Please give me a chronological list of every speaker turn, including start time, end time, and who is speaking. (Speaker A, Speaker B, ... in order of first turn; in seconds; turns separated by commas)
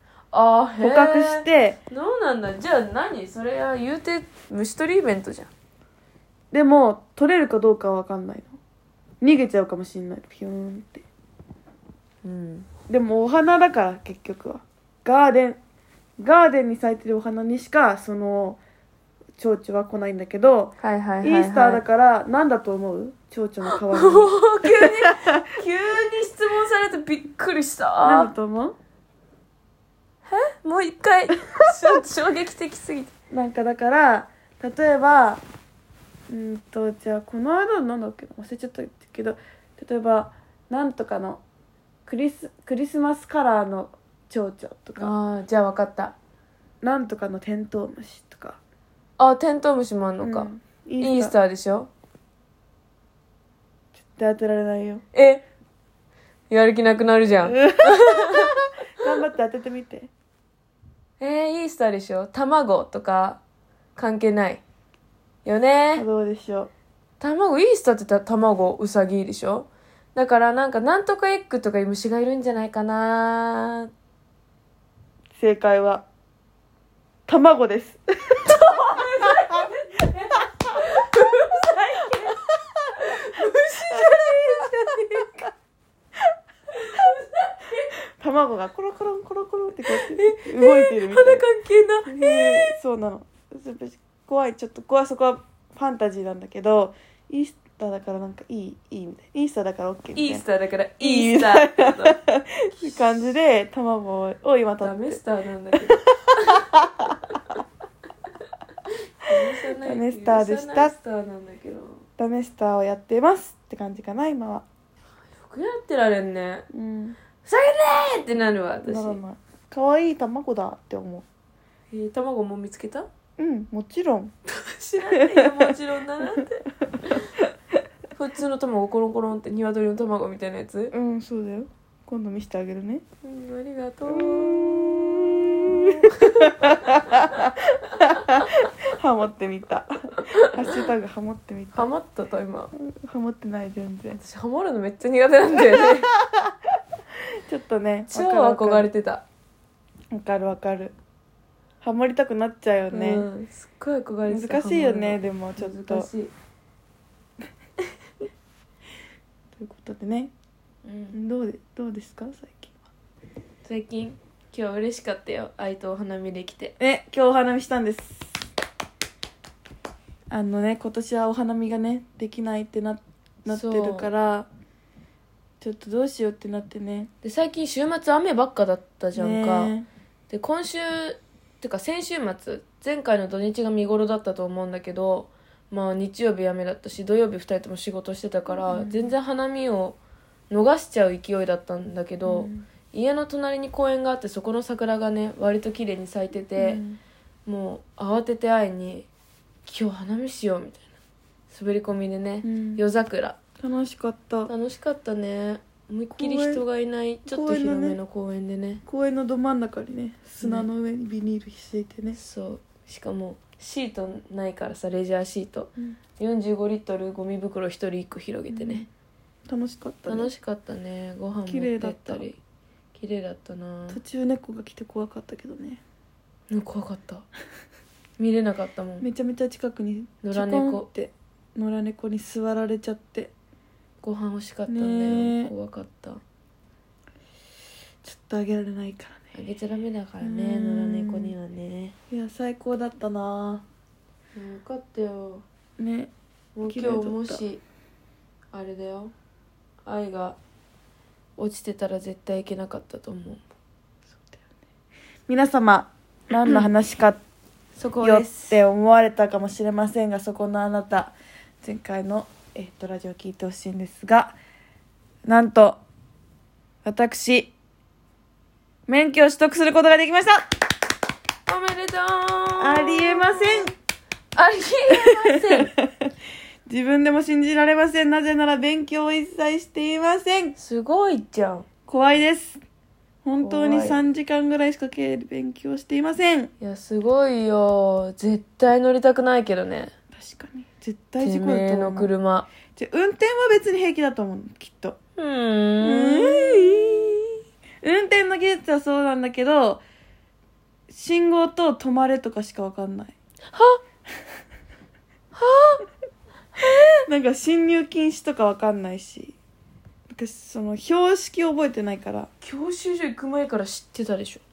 Speaker A: 0.3-5.5, Speaker B: 0.8-1.8, Speaker B: 6.5-8.6, Speaker B: 9.2-11.1, Speaker A: 12.2-12.7, Speaker B: 12.9-15.6, Speaker B: 16.2-18.6, Speaker B: 19.4-25.5, Speaker A: 20.8-21.8, Speaker A: 23.7-28.3, Speaker B: 28.0-28.8, Speaker A: 30.3-33.1, Speaker B: 33.3-35.4, Speaker B: 36.3-41.4, Speaker B: 42.1-45.1, Speaker A: 45.0-46.2, Speaker B: 46.8-48.6, Speaker A: 49.2-51.9, Speaker B: 50.2-51.4, Speaker B: 54.0-55.0, Speaker A: 55.1-55.4, Speaker A: 56.5-58.5, Speaker B: 57.4-60.1, Speaker A: 61.2-63.4, Speaker A: 64.0-64.6, Speaker A: 65.5-66.0, Speaker B: 66.0-66.7, Speaker A: 67.2-73.9, Speaker B: 75.4-76.0, Speaker B: 77.3-78.5, Speaker A: 78.4-85.5, Speaker B: 79.2-79.6, Speaker B: 83.8-85.0, Speaker A: 86.7-87.9, Speaker B: 88.2-91.4, Speaker A: 89.9-92.8, Speaker B: 92.1-100.4, Speaker A: 100.2-102.2, Speaker B: 101.0-105.2, Speaker A: 104.8-107.6, Speaker B: 106.7-107.1, Speaker A: 109.2-112.0, Speaker B: 109.8-111.0, Speaker B: 112.2-114.7, Speaker A: 115.3-116.7, Speaker B: 116.7-117.2, Speaker A: 117.4-119.2, Speaker B: 118.8-121.3, Speaker A: 121.9-123.1, Speaker B: 123.4-124.3, Speaker A: 124.5-127.3, Speaker B: 125.2-125.8, Speaker A: 128.2-130.9, Speaker B: 130.9-133.0, Speaker A: 133.2-135.1, Speaker B: 134.1-141.9, Speaker A: 135.7-137.2, Speaker A: 140.2-140.8, Speaker A: 141.7-142.7, Speaker B: 142.8-144.2, Speaker A: 144.2-146.1, Speaker B: 145.8-146.4, Speaker B: 147.4-148.9, Speaker A: 148.1-149.2, Speaker B: 150.1-150.9, Speaker B: 151.8-153.3, Speaker A: 152.9-156.3, Speaker B: 154.3-156.1, Speaker B: 159.6-160.3, Speaker A: 160.8-161.2, Speaker B: 161.1-162.8, Speaker A: 163.6-166.7, Speaker B: 166.8-168.4, Speaker B: 170.3-174.5, Speaker A: 173.5-174.1, Speaker B: 175.6-177.1, Speaker A: 177.2-179.8, Speaker B: 179.2-179.9, Speaker A: 180.3-190.0, Speaker B: 188.7-189.2, Speaker A: 190.5-196.8, Speaker B: 192.2-192.7, Speaker B: 196.6-197.0, Speaker A: 197.5-199.1, Speaker A: 199.7-200.9, Speaker A: 201.5-203.4, Speaker B: 202.4-202.8, Speaker B: 203.6-204.5, Speaker A: 204.5-208.8, Speaker B: 206.2-206.6, Speaker B: 207.3-208.0, Speaker B: 208.9-212.2, Speaker A: 210.4-210.7, Speaker A: 212.2-218.9, Speaker B: 218.5-218.9, Speaker B: 219.5-220.3, Speaker A: 220.1-222.4, Speaker B: 221.4-222.3, Speaker A: 222.9-224.0, Speaker B: 223.9-225.8, Speaker A: 226.5-227.2, Speaker A: 228.2-229.1, Speaker B: 229.0-233.3, Speaker A: 230.2-230.9, Speaker A: 234.0-236.2, Speaker B: 234.7-235.5, Speaker B: 238.0-239.3, Speaker A: 239.3-242.0, Speaker B: 240.2-241.3, Speaker B: 242.1-243.6, Speaker A: 244.3-245.4, Speaker B: 245.8-246.1, Speaker A: 246.6-247.6, Speaker B: 246.6-247.4, Speaker A: 248.5-249.1, Speaker A: 249.8-250.4, Speaker A: 251.4-253.4, Speaker B: 255.3-257.2, Speaker A: 257.8-258.6, Speaker B: 258.0-264.4, Speaker B: 265.2-265.8, Speaker B: 266.8-267.5, Speaker B: 268.9-270.4, Speaker A: 271.5-273.7, Speaker B: 272.6-273.7, Speaker A: 274.4-275.7, Speaker B: 274.9-276.1, Speaker B: 276.7-280.6, Speaker A: 280.6-281.6, Speaker B: 281.9-282.6, Speaker B: 283.2-286.5, Speaker A: 283.4-284.0, Speaker A: 286.6-289.9, Speaker B: 290.1-292.1, Speaker A: 291.2-292.5, Speaker B: 292.7-295.0, Speaker A: 295.2-297.1, Speaker B: 295.8-297.2, Speaker B: 297.8-299.8, Speaker B: 300.9-303.1, Speaker A: 303.5-303.8, Speaker A: 305.3-305.8, Speaker A: 306.6-307.0, Speaker B: 307.1-309.4, Speaker B: 310.1-312.3, Speaker A: 312.4-314.4